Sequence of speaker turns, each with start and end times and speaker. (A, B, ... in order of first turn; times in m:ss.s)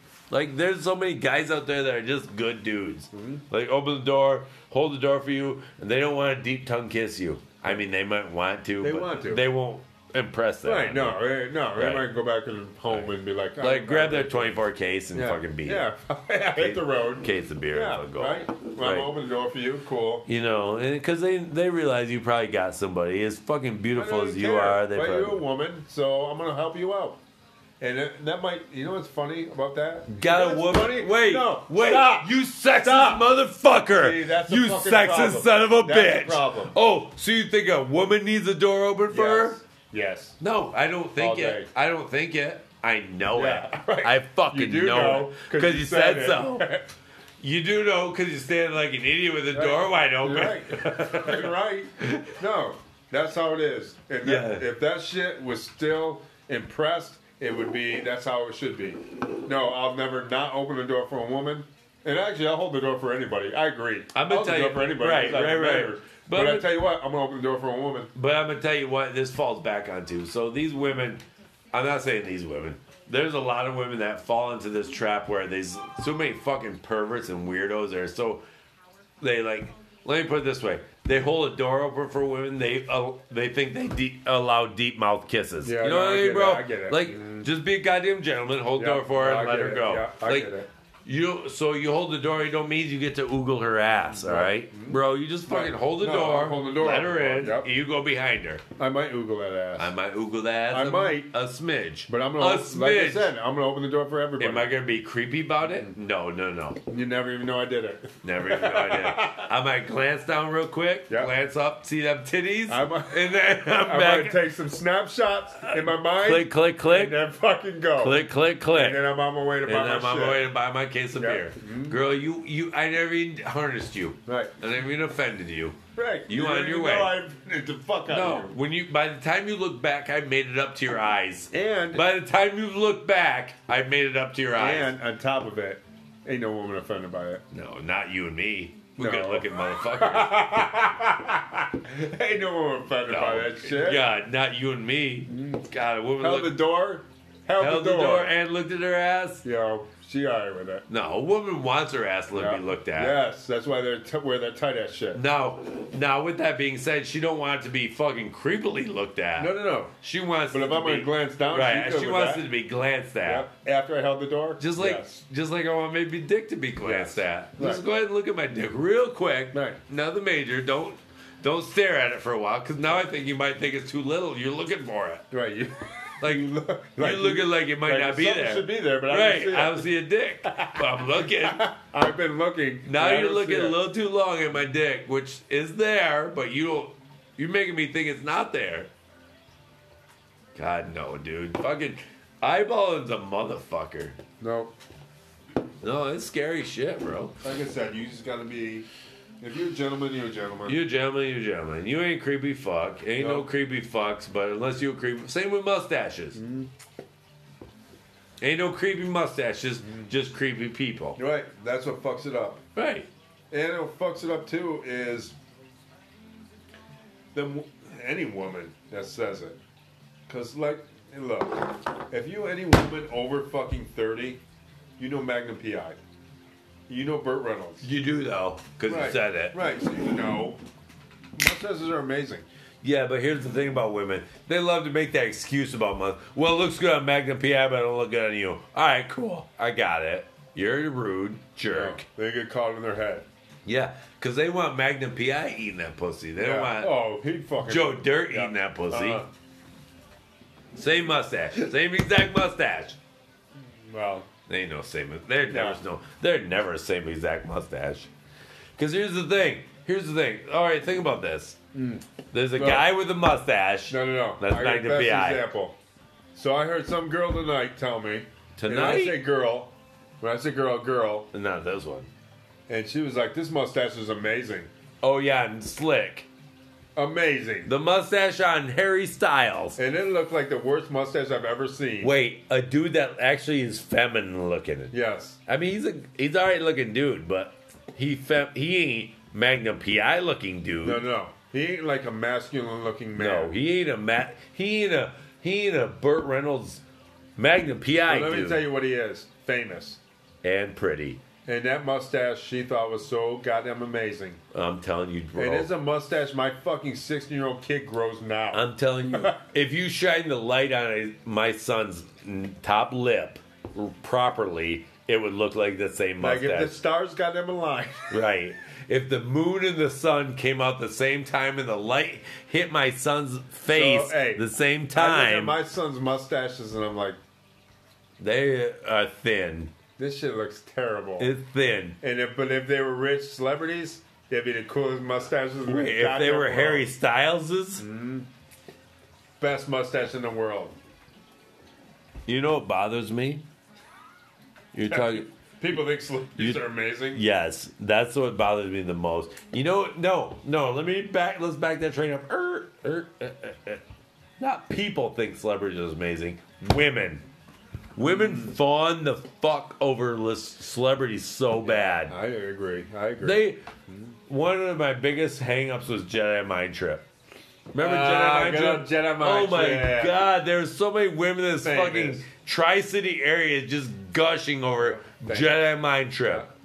0:00.3-0:11.2 A
0:03.1-0:03.4 B
0:08.8-0:09.4 B
0:10.6-0:20.2 B
0:11.8-0:12.1 A
0:12.9-0:15.8 A
0:16.6-0:19.1 A
0:20.2-0:25.4 A
0:23.9-0:27.2 B
0:27.8-0:33.3 B
0:30.1-0:39.6 A
0:33.9-0:36.7 B
0:39.1-0:40.4 B
0:40.4-0:46.6 A
0:41.2-0:41.7 B
0:43.3-0:46.9 B
0:47.4-0:52.4 A
0:49.5-1:08.1 B
0:54.2-0:54.7 A
1:04.1-1:06.7 A
1:08.1-1:18.4 A
1:19.2-1:30.5 A
1:25.6-1:27.5 B
1:28.8-1:30.7 B
1:31.0-1:38.6 A
1:34.1-1:37.7 B
1:38.8-1:39.9 B
1:39.8-1:43.3 A
1:40.7-1:41.3 B
1:42.1-1:44.7 B
1:44.4-1:46.8 A
1:46.9-1:49.5 B
1:48.2-1:54.4 A
1:52.7-2:00.4 B
1:55.6-1:57.2 A
1:58.0-1:59.0 A
1:59.6-2:07.2 A
2:01.2-2:02.0 B
2:04.2-2:04.5 B
2:05.9-2:08.6 B
2:08.1-2:14.9 A
2:11.5-2:12.0 B
2:14.5-2:17.4 B
2:17.5-2:20.4 A
2:19.0-2:24.0 B
2:23.1-2:26.6 A
2:25.3-2:25.6 B
2:26.2-2:28.3 B
2:27.6-2:29.4 A
2:29.4-2:30.8 B
2:30.9-2:33.2 A
2:32.3-2:35.2 B
2:35.1-2:43.5 A
2:39.4-2:39.9 B
2:40.5-2:42.5 B
2:43.2-2:45.2 B
2:44.6-2:55.3 A
2:46.8-2:47.8 B
2:49.5-2:49.8 B
2:55.3-2:59.9 B
2:56.2-3:01.6 A
3:00.4-3:03.8 B
3:02.8-3:08.9 A
3:10.5-3:14.2 A
3:14.4-3:14.7 B
3:15.8-3:17.4 A
3:17.4-3:18.9 B
3:19.4-3:20.8 B
3:20.6-3:26.4 A
3:23.2-3:23.5 B
3:26.3-3:26.7 B
3:28.4-3:31.2 A
3:31.2-3:32.6 B
3:32.7-3:33.1 A
3:33.5-3:35.3 B
3:37.3-3:39.6 B
3:40.3-3:44.4 B
3:45.0-3:46.0 B
3:46.9-3:47.9 B
3:47.8-3:49.6 A
3:48.8-3:50.6 B
3:51.3-3:52.4 B
3:52.8-4:02.0 A
4:01.7-4:03.2 B
4:03.6-4:06.9 A
4:06.4-4:09.3 B
4:07.7-4:09.2 A
4:10.7-4:13.0 A
4:13.5-4:14.3 B
4:14.5-4:18.1 A
4:15.5-4:15.8 B
4:18.8-4:21.6 A
4:21.7-4:22.9 B
4:22.3-4:25.5 A
4:23.9-4:25.8 B
4:26.3-4:31.3 B
4:28.6-4:29.2 A
4:31.3-4:32.1 A
4:32.7-4:34.7 B
4:35.0-4:36.3 A
4:36.9-4:37.7 B
4:37.6-4:39.8 A
4:39.8-4:42.1 B
4:42.0-4:44.9 A
4:44.9-4:45.4 B
4:45.4-4:51.0 A
4:50.8-4:53.5 B
4:53.2-4:56.8 A
4:57.4-4:58.6 A
4:58.1-5:00.0 B
5:00.4-5:01.2 A
5:01.4-5:04.4 B
5:04.5-5:05.7 A
5:05.4-5:09.4 B
5:08.5-5:16.8 A
5:16.2-5:18.2 B
5:18.1-5:25.6 A
5:23.7-5:27.2 B
5:28.2-5:29.7 A
5:30.0-5:31.3 B
5:31.2-5:32.0 A
5:32.0-5:36.9 B
5:35.6-5:37.8 A
5:37.8-5:38.3 B
5:39.4-5:40.8 B
5:42.3-5:43.4 A
5:44.7-5:45.3 A
5:44.9-5:47.2 B
5:46.4-5:53.8 A
5:54.4-5:57.2 A
5:58.0-6:02.1 A
6:01.6-6:04.0 B
6:03.2-6:03.6 A
6:04.3-6:07.0 A
6:07.7-6:10.2 B
6:07.7-6:16.5 A
6:11.6-6:12.2 B
6:14.8-6:15.7 B